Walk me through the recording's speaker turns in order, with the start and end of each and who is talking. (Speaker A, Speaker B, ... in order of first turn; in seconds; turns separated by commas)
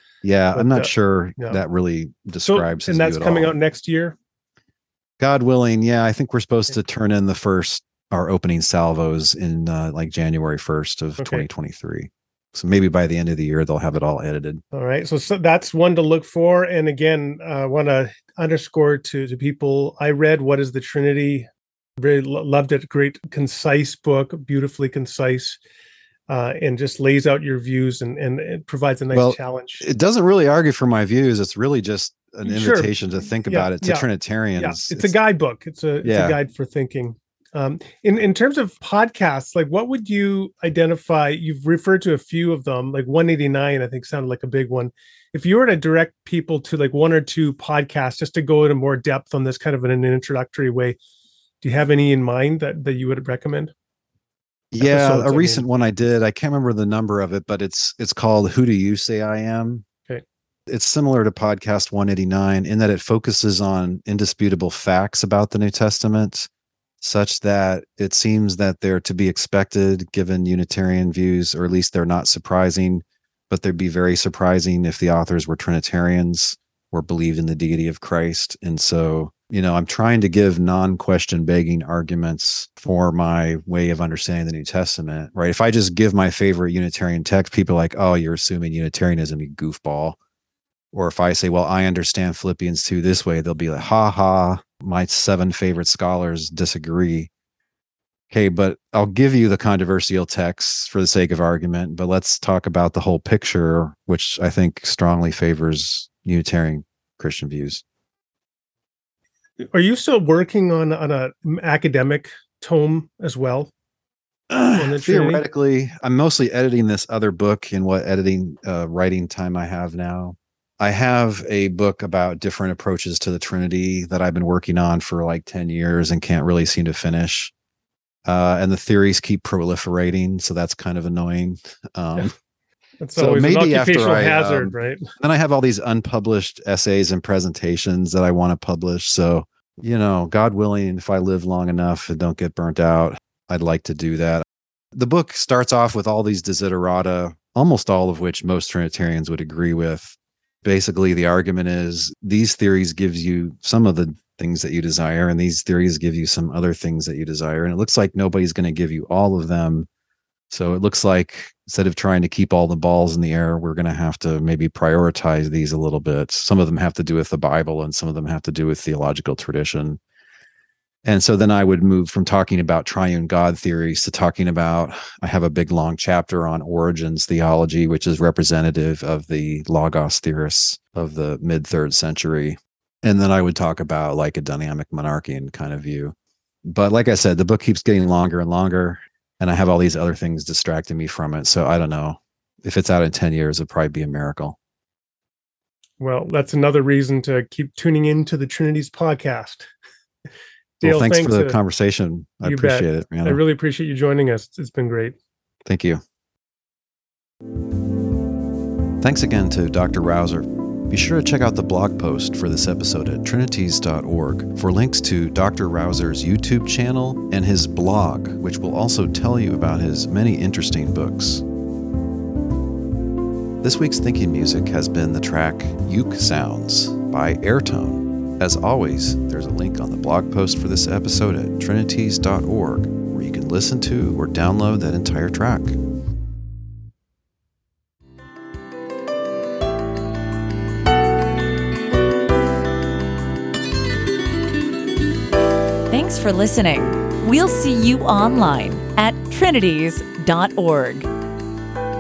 Speaker A: 0.2-3.5, Speaker B: 0.6-1.6, Speaker B: 2.5-4.2, Speaker A: 5.2-14.6, Speaker B: 11.2-11.4, Speaker B: 14.7-21.5, Speaker B: 22.0-25.6, Speaker B: 26.3-29.9, Speaker A: 29.1-35.1, Speaker B: 32.5-32.9, Speaker B: 33.5-51.0, Speaker A: 36.0-36.4, Speaker B: 51.6-53.7, Speaker A: 54.7-59.9, Speaker B: 54.8-55.6, Speaker A: 60.7-66.5, Speaker A: 67.0-90.2, Speaker A: 90.9-97.3, Speaker A: 98.3-107.8, Speaker B: 109.6-113.7, Speaker A: 114.5-127.5, Speaker B: 114.8-115.4, Speaker A: 128.3-132.3, Speaker B: 133.0-135.1, Speaker A: 133.2-159.9, Speaker A: 160.5-170.0, Speaker A: 171.1-194.6, Speaker B: 196.0-199.7, Speaker A: 200.8-203.4, Speaker B: 200.8-201.6, Speaker B: 202.4-205.2, Speaker A: 205.7-206.0, Speaker A: 209.0-221.4, Speaker A: 223.6-235.8, Speaker C: 245.9-251.1